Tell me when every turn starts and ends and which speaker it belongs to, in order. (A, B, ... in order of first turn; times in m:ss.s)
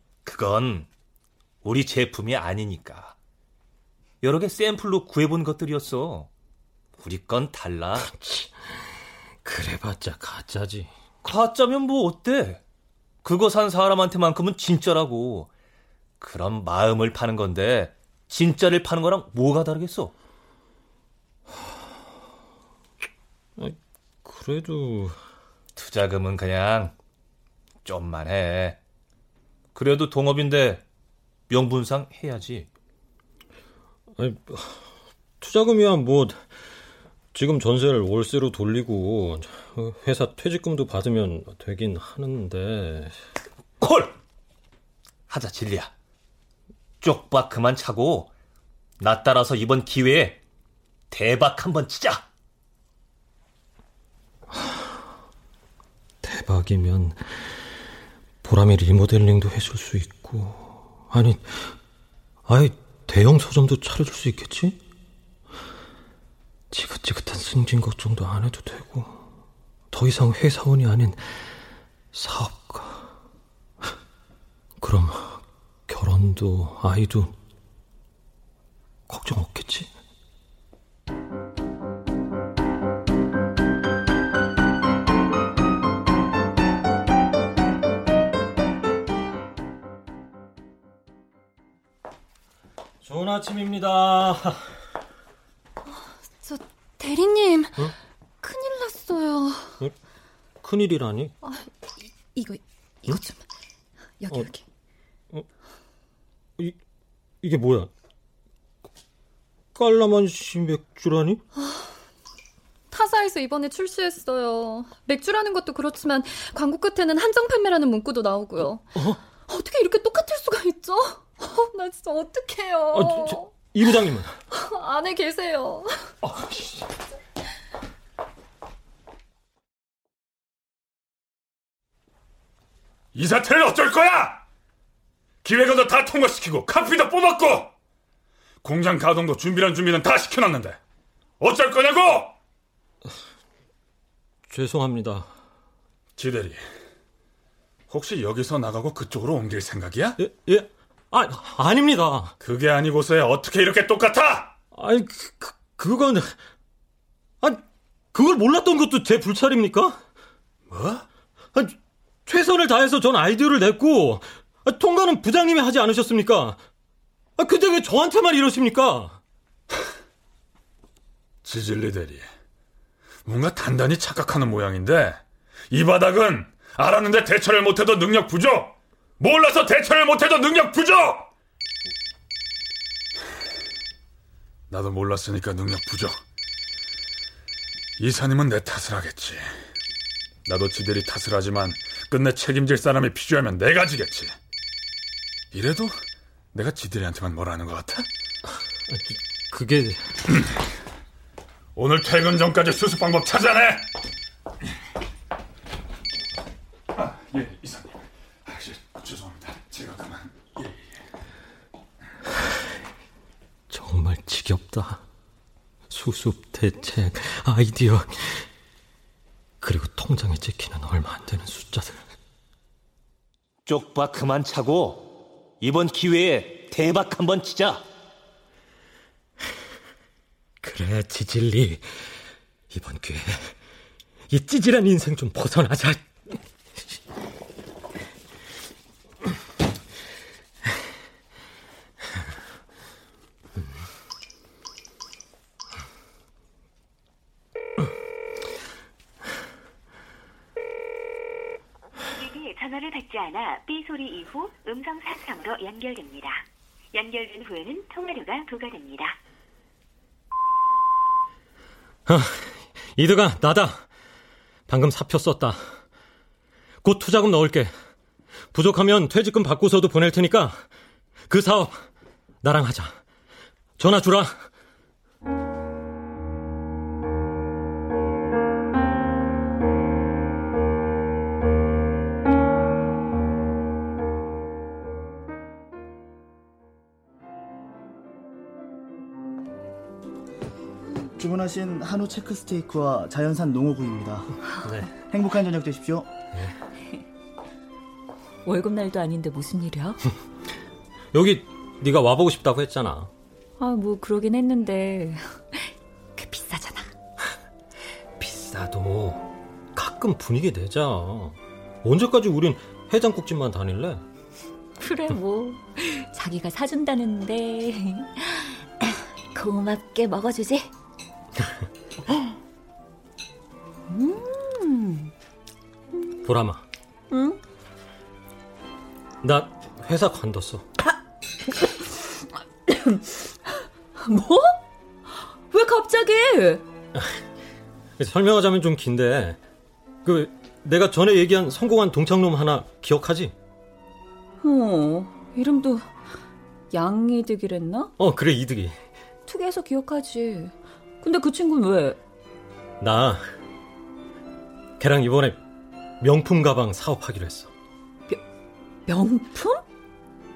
0:00.2-0:00.9 A
0:01.6-0:03.2 A
0:04.2-0:06.3 A
0:07.0-0:08.1 A
0:08.0-0:08.9 B
0:09.4-0:10.9 B
0:11.2-0:12.6 A
0:13.2-0:15.5 A
0:16.2-0:20.1 A
0:23.6-0:25.2 B
0:25.8-0:26.9 A
0:27.8-0:28.8 A
0:29.8-0:30.8 A
0:31.5-0:32.7 A
0:34.2-0:34.9 B
0:35.4-0:36.4 B
0:37.3-0:43.2 B
0:43.8-0:44.1 A
0:45.3-0:45.9 A
0:47.0-0:48.3 A
0:49.0-0:50.4 A
0:51.1-0:52.2 A
0:54.5-0:54.9 B
0:56.2-0:57.5 B
0:58.4-1:01.7 B
1:02.5-1:04.8 B
1:06.7-1:09.2 B
1:09.9-1:11.5 B
1:12.1-1:13.1 B
1:14.8-1:17.4 B
1:19.1-1:19.9 B
1:33.0-1:34.7 B
1:35.9-1:37.9 C
1:38.4-1:39.8 C
1:40.6-1:41.3 B
1:41.4-1:41.7 C
1:42.3-1:43.4 C
1:44.2-1:44.6 C
1:47.4-1:47.9 B
1:49.8-1:51.4 B
1:51.6-1:51.9 C
1:52.9-2:03.5 C
2:02.9-2:04.4 B
2:04.6-2:06.0 C
2:06.2-2:06.9 B
2:13.1-2:14.4 D
2:15.4-2:17.7 D
2:18.6-2:20.8 D
2:21.4-2:22.3 D
2:24.5-2:25.3 B
2:26.2-2:26.6 D
2:27.9-2:30.2 D
2:30.2-2:32.4 B
2:32.4-2:34.6 D
2:34.7-2:36.4 B
2:37.4-2:40.0 B
2:40.7-2:46.6 B
2:47.4-2:49.2 B
2:51.4-2:52.3 D
2:53.2-3:01.3 D
3:04.7-3:06.2 D
3:08.0-3:09.4 D
3:10.5-3:14.4 D
3:15.5-3:16.0 D
3:16.5-3:18.1 D
3:18.9-3:20.1 B
3:21.8-3:23.9 D
3:27.0-3:30.9 D
3:33.7-3:35.0 B
3:35.9-3:38.5 B
3:39.6-3:42.0 B
3:43.7-3:47.8 A
3:50.6-3:52.1 B
3:52.7-3:53.6 B
3:54.3-3:56.4 B
4:12.0-4:19.2 E
4:22.1-4:23.9 B
4:24.7-4:25.8 B
4:26.8-4:27.7 B
4:28.5-4:30.7 B
4:31.3-4:31.9 B
4:32.4-4:33.0 B
4:33.8-4:34.5 B
4:51.2-4:54.3 F
4:54.6-4:54.9 B
4:55.1-4:56.1 F
4:58.4-5:00.0 G
5:01.1-5:03.1 B
5:03.6-5:06.9 G
5:08.2-5:14.0 B
5:14.8-5:20.7 G
5:23.9-5:25.1 G
5:26.2-5:26.6 B
5:27.1-5:27.4 G
5:29.2-5:30.7 B
5:32.7-5:33.0 G
5:34.0-5:34.6 G
5:35.5-5:36.6 G
5:37.0-5:37.2 B
5:38.0-5:39.4 B
5:40.0-5:43.3 B
5:44.4-5:45.9 G
5:46.7-5:47.9 G
5:48.0-5:48.8 B
5:49.3-5:52.0 G
5:52.8-5:53.2 B
5:54.8-5:55.4 B
5:56.0-5:57.5 B
5:58.9-5:59.6 G